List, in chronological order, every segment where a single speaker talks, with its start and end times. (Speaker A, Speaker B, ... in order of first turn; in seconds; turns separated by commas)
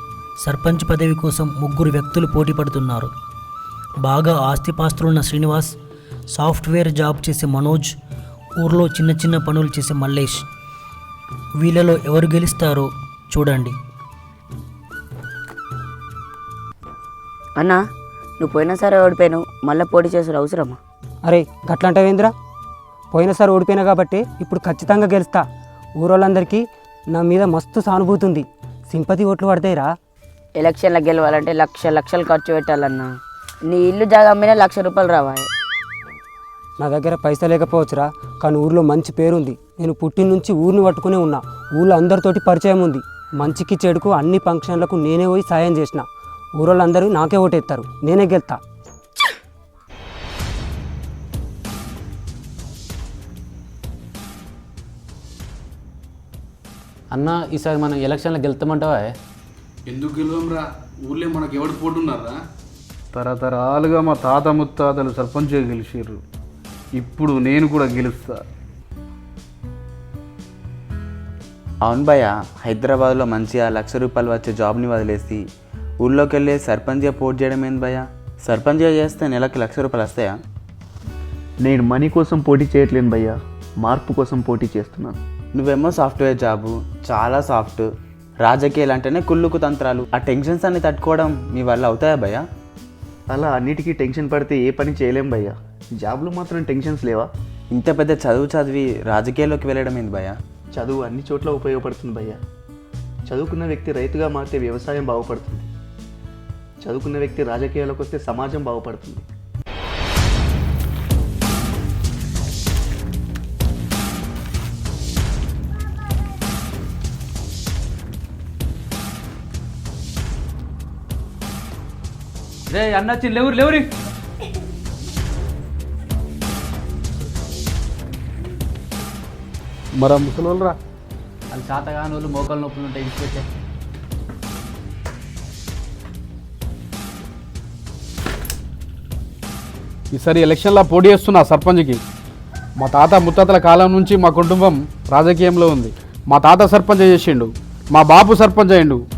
Speaker A: 0.4-3.1, Speaker A: 4.0-5.7, Speaker A: 6.3-7.9, Speaker A: 8.6-10.4, Speaker A: 11.6-13.8, Speaker B: 18.4-20.8, Speaker C: 21.2-22.3, Speaker C: 23.1-25.4, Speaker C: 26.0-29.9, Speaker B: 30.6-33.1, Speaker B: 33.7-35.5, Speaker C: 36.8-46.0, Speaker C: 46.6-48.6, Speaker D: 57.1-59.1, Speaker E: 59.9-62.4, Speaker E: 63.1-66.2, Speaker E: 67.0-68.4, Speaker F: 71.8-75.4, Speaker F: 76.0-80.4, Speaker G: 81.6-85.2, Speaker F: 85.5-87.9, Speaker F: 88.4-92.4, Speaker G: 93.3-97.3, Speaker F: 97.7-100.3, Speaker G: 100.7-102.4, Speaker G: 103.3-105.7, Speaker G: 106.8-109.2, Speaker D: 122.7-123.9, Speaker E: 130.0-130.8, Speaker D: 131.5-133.4, Speaker E: 140.1-142.0, Speaker E: 142.8-149.0